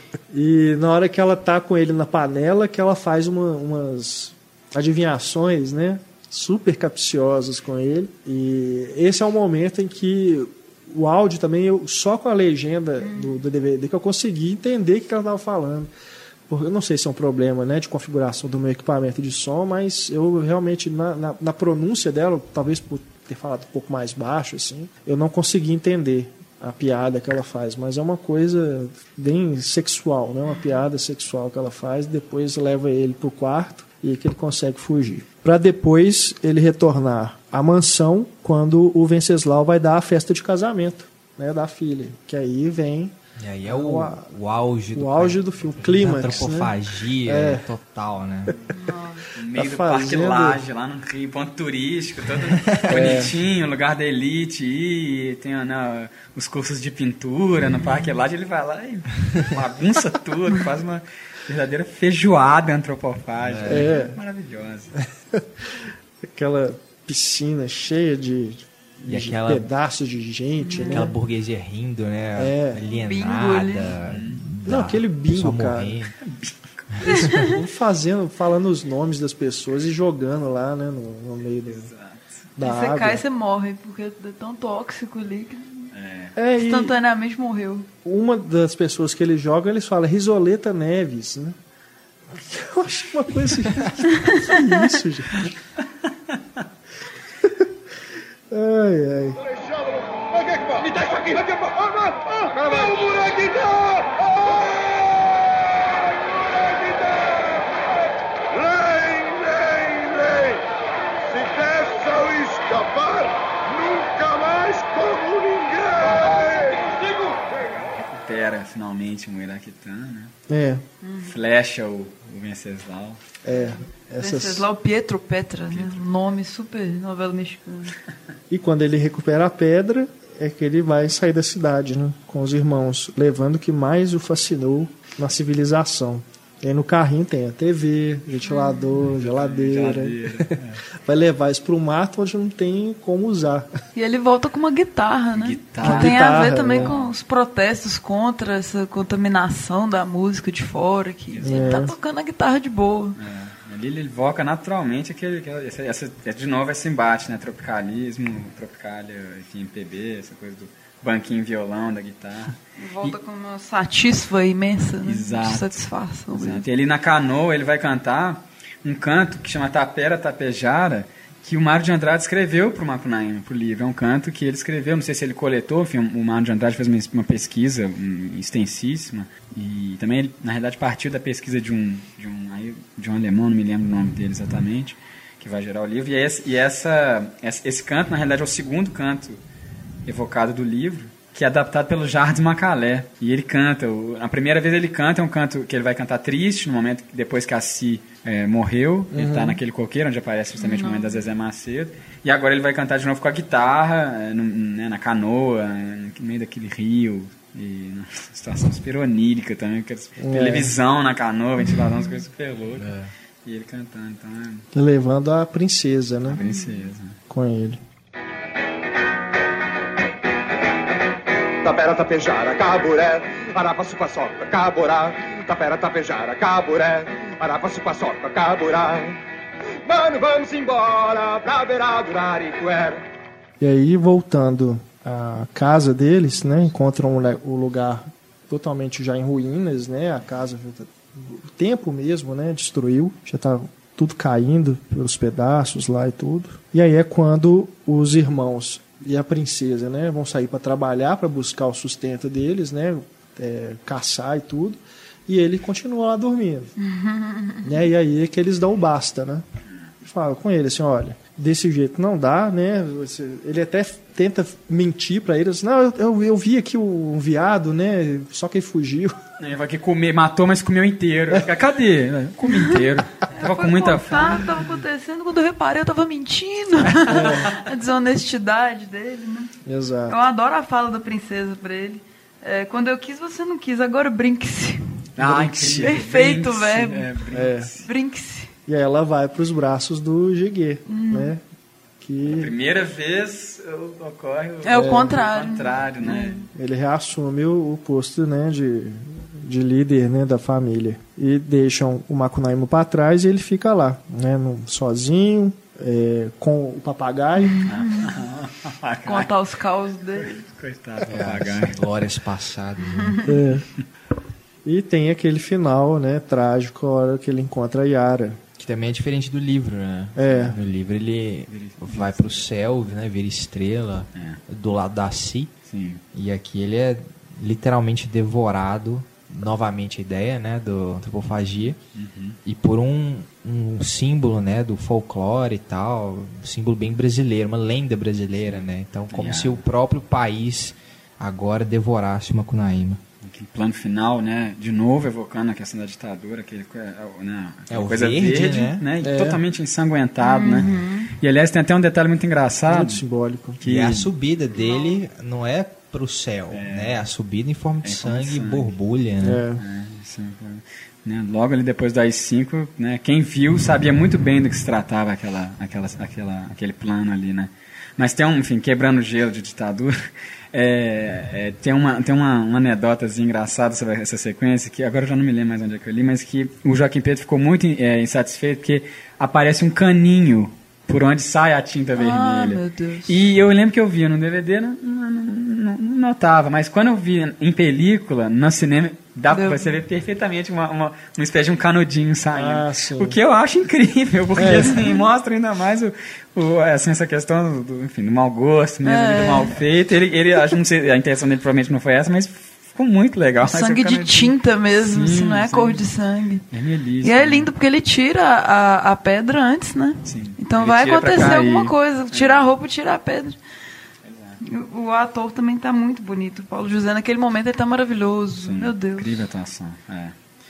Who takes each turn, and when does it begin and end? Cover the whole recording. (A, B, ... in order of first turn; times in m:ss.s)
0:00.3-0:15.9 A
0:13.0-0:13.4 B
0:16.5-0:43.1 A
0:43.4-0:48.5 C
0:43.6-0:44.2 A
0:44.9-0:46.7 A
0:47.2-0:47.6 A
0:48.8-0:49.2 B
0:49.3-1:04.9 D
0:49.5-0:50.6 A
0:52.9-0:53.3 A
1:03.4-1:04.0 C
1:03.6-1:04.2 A
1:06.3-1:11.1 A
1:09.0-1:09.7 C
1:10.6-1:11.1 B
1:10.8-1:16.1 C
1:12.4-1:12.8 A
1:12.9-1:14.0 B
1:14.0-1:14.4 D
1:14.6-1:16.0 A
1:16.2-1:17.2 D
1:17.0-1:17.6 B
1:17.1-1:21.9 A
1:21.7-1:22.4 D
1:22.6-1:23.2 A
1:22.6-1:25.9 B
1:25.9-1:26.3 D
1:26.4-1:26.9 A
1:26.6-1:27.9 B
1:28.0-1:31.6 A
1:32.3-1:35.5 A
1:34.1-1:34.5 B
1:36.0-1:36.4 D
1:38.5-1:39.4 A
1:39.9-1:45.4 E
1:46.3-1:47.6 E
1:48.5-1:50.6 E
1:51.3-1:57.4 E
1:57.5-2:00.3 D
2:00.5-2:00.8 A
2:01.0-2:01.3 B
2:01.2-2:03.2 D
2:03.4-2:04.7 A
2:03.5-2:07.9 B
2:05.7-2:06.0 D
2:08.5-2:23.7 A
2:18.5-2:19.0 B
2:19.0-2:20.8 D
2:23.9-2:33.2 B
2:25.3-2:27.1 D
2:25.8-2:27.0 A
2:31.3-2:31.9 D
2:31.4-2:31.9 A
2:33.2-2:43.2 D
2:42.8-2:46.6 B
2:45.0-3:09.4 D
3:10.0-3:34.6 D
3:19.1-3:19.6 A
3:20.6-3:21.2 B
3:30.2-3:30.7 A
3:32.8-3:33.1 C
3:34.7-3:36.4 A
3:36.2-3:37.2 D
3:36.4-3:36.8 B
3:37.3-3:37.8 A
3:41.6-3:49.2 E
3:49.8-3:53.0 E
3:53.6-4:16.7 A
4:16.8-4:17.7 B
4:17.6-4:19.4 A
4:20.0-4:29.2 A
4:29.4-4:34.6 D
4:32.4-4:32.8 B
4:33.3-4:39.5 B
4:36.8-4:37.5 D
4:37.1-4:37.5 A
4:39.6-4:40.2 A
4:40.1-4:44.8 B
4:45.2-4:47.9 D
4:45.2-4:46.0 A
4:45.6-4:47.1 B
4:47.3-4:47.7 A
4:47.8-4:48.5 B
4:48.7-4:51.4 A
4:50.9-4:51.3 B
4:52.0-4:52.5 A
4:52.2-4:56.4 D
4:54.6-4:56.4 B
4:54.7-4:55.2 A
4:56.5-5:07.6 A
5:07.4-5:08.2 B
5:07.6-5:09.3 D
5:09.0-5:10.3 B
5:10.2-5:11.8 D
5:11.0-5:13.2 C
5:13.0-5:13.3 B
5:13.2-5:13.7 A
5:14.6-5:18.4 A
5:18.6-5:25.5 C
5:20.2-5:20.6 A
5:21.5-5:22.4 D
5:24.1-5:24.4 D
5:25.6-5:26.0 D
5:26.1-5:31.8 C
5:31.9-5:32.4 D
5:32.4-5:43.0 C
5:39.1-5:39.6 D
5:43.2-5:53.0 D
5:47.7-5:48.8 C
5:49.0-5:49.4 A
5:50.2-5:51.1 B
5:52.7-5:53.6 A
5:53.6-5:54.1 D
5:53.6-5:59.4 C
5:54.5-5:55.0 B
5:56.5-5:57.0 D
5:57.8-5:58.7 D
5:59.2-5:59.6 A
5:59.6-6:45.8 D
6:22.0-6:23.2 B
6:29.3-6:29.7 B
6:32.3-6:33.2 A
6:34.4-6:34.8 A
6:38.8-6:39.6 B
6:43.4-6:46.4 B
6:46.5-6:47.5 D
6:47.0-6:53.4 B
6:50.0-6:52.5 D
6:54.0-6:54.4 D
6:54.4-6:59.1 B
6:58.3-7:00.1 D